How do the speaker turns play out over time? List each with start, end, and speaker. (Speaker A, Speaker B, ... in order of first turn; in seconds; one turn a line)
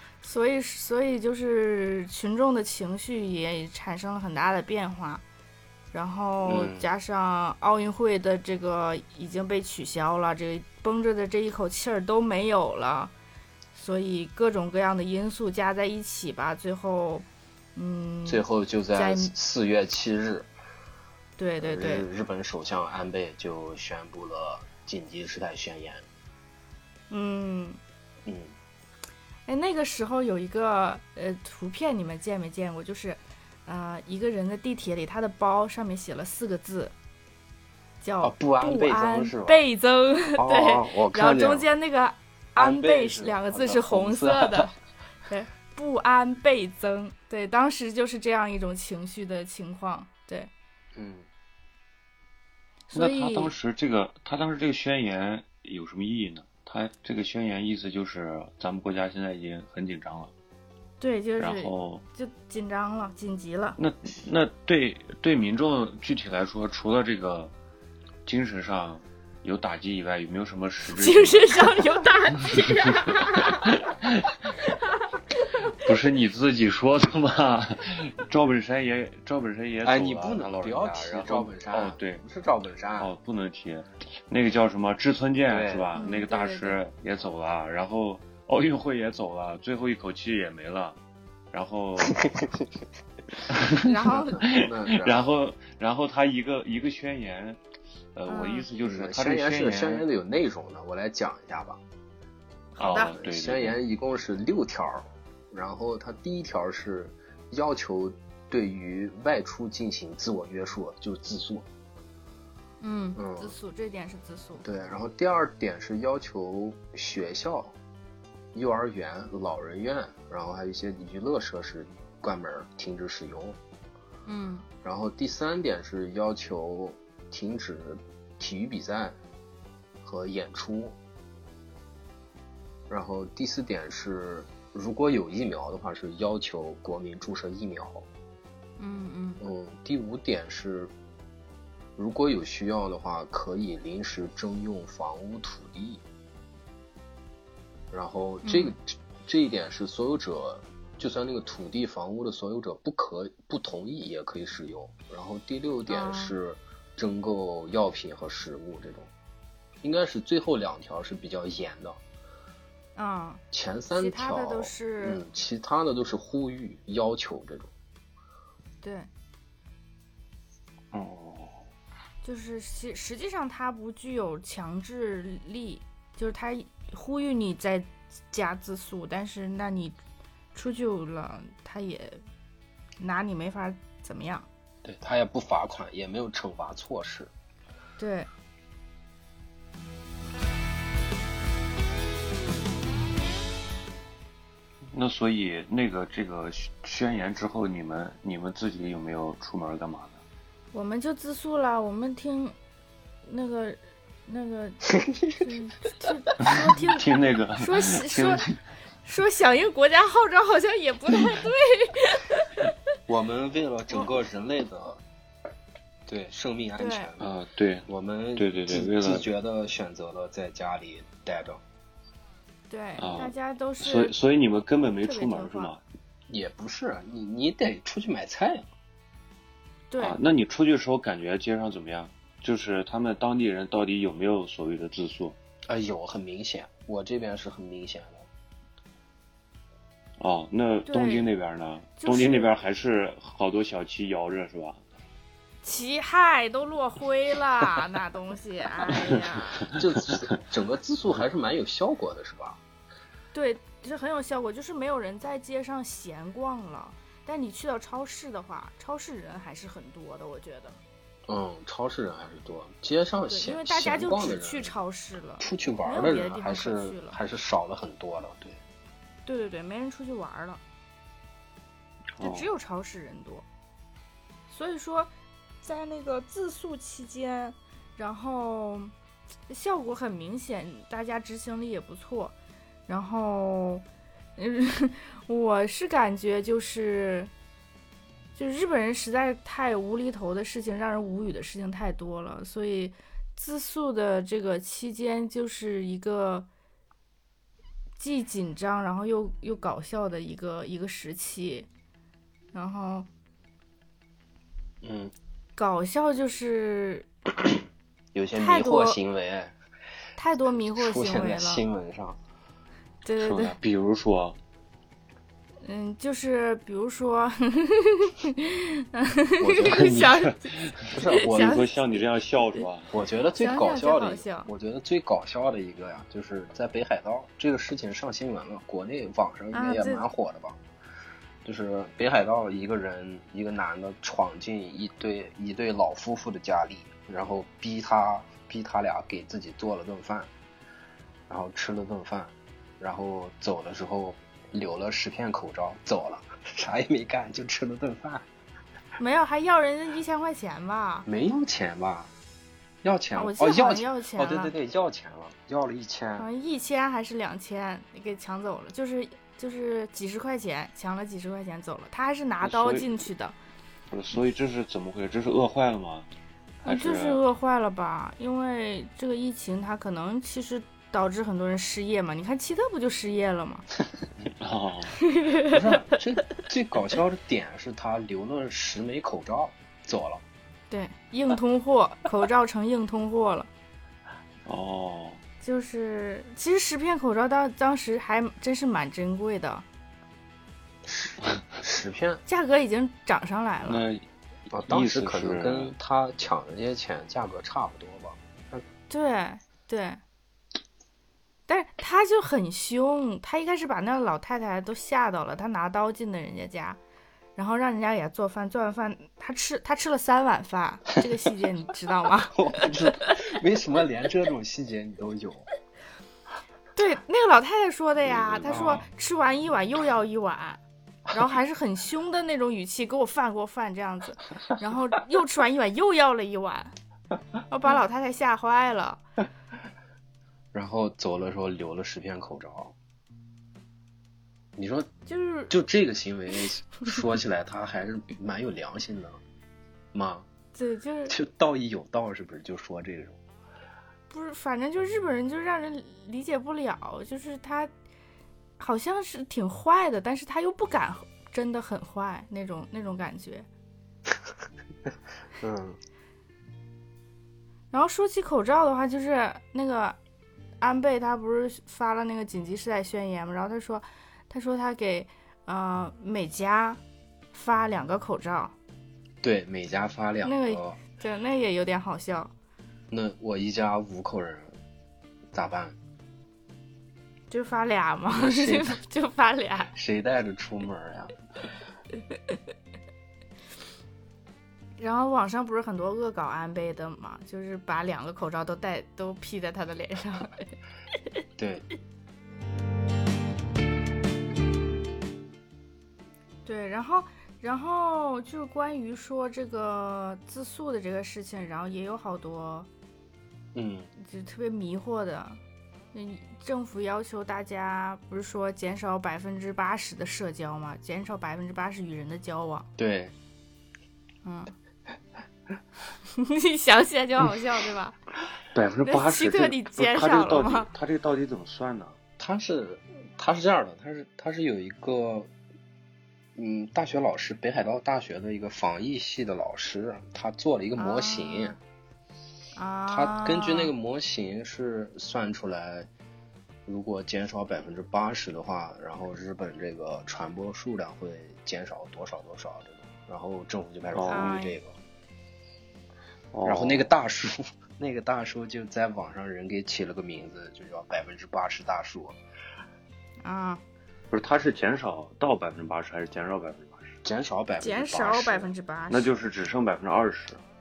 Speaker A: 0.2-5.2
Speaker A: 5.9-13.1
Speaker B: 6.4-6.9
Speaker A: 13.7-19.3
Speaker B: 18.2-20.5
Speaker A: 21.4-22.1
Speaker B: 21.6-26.0
Speaker A: 27.1-27.8
Speaker B: 28.2-28.5
Speaker A: 29.5-36.9
Speaker A: 38.0-44.7
Speaker B: 38.2-39.6
Speaker B: 40.3-41.7
Speaker B: 42.5-44.7
Speaker A: 45.3-50.5
Speaker B: 50.9-51.3
Speaker A: 52.9-53.5
Speaker C: 52.9-60.3
Speaker A: 61.0-63.8
Speaker C: 61.4-62.0
Speaker C: 63.8-67.5
Speaker C: 68.2-71.8
Speaker A: 70.9-73.7
Speaker C: 72.4-74.6
Speaker C: 75.7-82.2
Speaker B: 79.8-83.1
Speaker C: 83.0-91.0
Speaker B: 85.5-86.0
Speaker A: 85.9-86.8
Speaker C: 91.5-92.2
Speaker B: 92.2-92.5
Speaker C: 93.5-97.6
Speaker A: 93.8-94.4
Speaker B: 94.1-95.2
Speaker C: 98.1-100.0
Speaker A: 98.3-98.7
Speaker B: 98.8-101.8
Speaker A: 102.8-103.1
Speaker C: 102.8-103.8
Speaker B: 103.2-111.7
Speaker A: 112.8-114.6
Speaker B: 113.2-113.5
Speaker B: 114.6-117.7
Speaker B: 118.5-123.6
Speaker A: 124.2-124.7
Speaker B: 124.8-129.2
Speaker B: 130.0-130.9
Speaker B: 132.9-138.1
Speaker A: 138.8-139.4
Speaker B: 139.4-140.9
Speaker B: 142.0-146.0
Speaker B: 147.9-159.1
Speaker A: 148.4-148.7
Speaker A: 155.9-156.3
Speaker B: 159.8-162.0
Speaker A: 162.9-163.4
Speaker B: 163.5-167.7
Speaker A: 163.9-165.2
Speaker A: 168.8-169.1
Speaker C: 170.9-171.6
Speaker A: 172.2-180.0
Speaker A: 180.5-182.2
Speaker A: 183.0-184.4
Speaker B: 184.8-187.3
Speaker A: 188.0-188.3
Speaker C: 194.9-200.2
Speaker A: 200.7-202.5
Speaker A: 203.2-208.5
Speaker B: 205.0-205.4
Speaker C: 206.4-208.6
Speaker A: 209.0-212.7
Speaker B: 213.1-215.0
Speaker B: 216.1-217.3
Speaker A: 216.8-217.1
Speaker C: 217.2-219.3
Speaker B: 217.9-221.6
Speaker A: 222.7-224.1
Speaker C: 223.0-225.8
Speaker A: 225.0-225.7
Speaker B: 226.3-228.7
Speaker A: 229.9-230.2
Speaker C: 230.0-235.4
Speaker B: 235.7-238.3
Speaker C: 240.2-244.8
Speaker A: 240.8-241.3
Speaker A: 242.0-242.5
Speaker A: 245.6-249.8
Speaker B: 249.7-252.6
Speaker A: 253.3-260.8
Speaker B: 261.3-264.7
Speaker A: 263.3-267.2
Speaker B: 265.4-268.6
Speaker A: 269.2-270.6
Speaker C: 272.2-272.5
Speaker A: 272.2-273.4
Speaker A: 274.5-275.1
Speaker A: 275.6-278.9
Speaker A: 279.5-282.4
Speaker A: 282.9-283.8
Speaker A: 284.4-287.3
Speaker A: 288.4-296.5
Speaker A: 298.0-301.7
Speaker A: 302.5-303.1
Speaker B: 304.8-305.1
Speaker A: 305.6-307.1
Speaker B: 308.1-309.5
Speaker A: 308.4-309.0
Speaker A: 310.2-311.6
Speaker B: 310.7-312.2
Speaker A: 313.0-313.6
Speaker C: 313.2-314.4
Speaker A: 315.6-321.9
Speaker B: 319.4-320.2
Speaker C: 320.0-320.3
Speaker B: 320.9-321.6
Speaker C: 321.2-322.9
Speaker B: 322.9-330.6
Speaker A: 323.3-324.5
Speaker A: 329.5-330.0
Speaker B: 331.4-340.3
Speaker B: 341.3-348.2
Speaker A: 349.0-351.1
Speaker B: 351.1-352.1
Speaker B: 352.8-356.3
Speaker A: 353.1-354.5
Speaker A: 356.2-363.3
Speaker C: 362.4-362.9
Speaker C: 363.9-366.1
Speaker C: 366.6-367.2
Speaker A: 366.6-373.7
Speaker C: 374.4-374.9
Speaker A: 375.0-375.6
Speaker B: 375.4-380.2
Speaker A: 380.7-383.5
Speaker C: 384.4-385.2
Speaker A: 385.4-389.6
Speaker B: 390.8-392.2
Speaker A: 392.2-393.8
Speaker C: 393.6-394.0
Speaker B: 394.5-398.6
Speaker C: 394.7-395.7
Speaker A: 398.9-400.0
Speaker A: 401.5-406.8
Speaker A: 407.4-413.1
Speaker B: 412.3-415.5
Speaker A: 416.7-420.6
Speaker C: 418.0-418.8
Speaker B: 418.4-418.8
Speaker A: 421.1-426.7
Speaker A: 427.5-429.0
Speaker B: 430.5-432.7
Speaker B: 434.6-434.9
Speaker A: 435.1-435.5
Speaker B: 435.5-439.2
Speaker B: 439.9-440.3
Speaker A: 440.5-441.1
Speaker B: 441.1-443.2
Speaker A: 444.1-447.7
Speaker A: 448.6-453.4
Speaker B: 455.4-455.8
Speaker A: 457.7-460.0
Speaker A: 460.6-466.8
Speaker A: 467.3-468.5
Speaker B: 469.2-470.8
Speaker A: 470.2-472.3
Speaker B: 472.9-474.5
Speaker B: 475.3-475.8
Speaker A: 477.3-479.7
Speaker B: 478.1-478.8
Speaker B: 479.7-481.1
Speaker A: 484.8-490.5
Speaker B: 491.4-491.7
Speaker A: 496.4-502.7
Speaker B: 503.5-503.9
Speaker A: 504.0-505.4
Speaker A: 505.9-512.7
Speaker B: 512.8-513.1
Speaker A: 514.2-514.5
Speaker A: 516.1-518.0
Speaker C: 518.5-522.0
Speaker A: 518.8-520.7
Speaker B: 522.2-525.3
Speaker B: 526.4-531.6
Speaker A: 530.8-531.6
Speaker A: 532.5-533.7
Speaker B: 532.9-535.9
Speaker B: 536.6-544.7
Speaker C: 543.9-544.4
Speaker A: 544.1-544.6
Speaker C: 546.3-546.9
Speaker B: 546.4-552.2
Speaker A: 553.2-553.6
Speaker C: 554.1-557.0
Speaker B: 557.0-558.5
Speaker A: 557.6-559.1
Speaker C: 558.9-560.4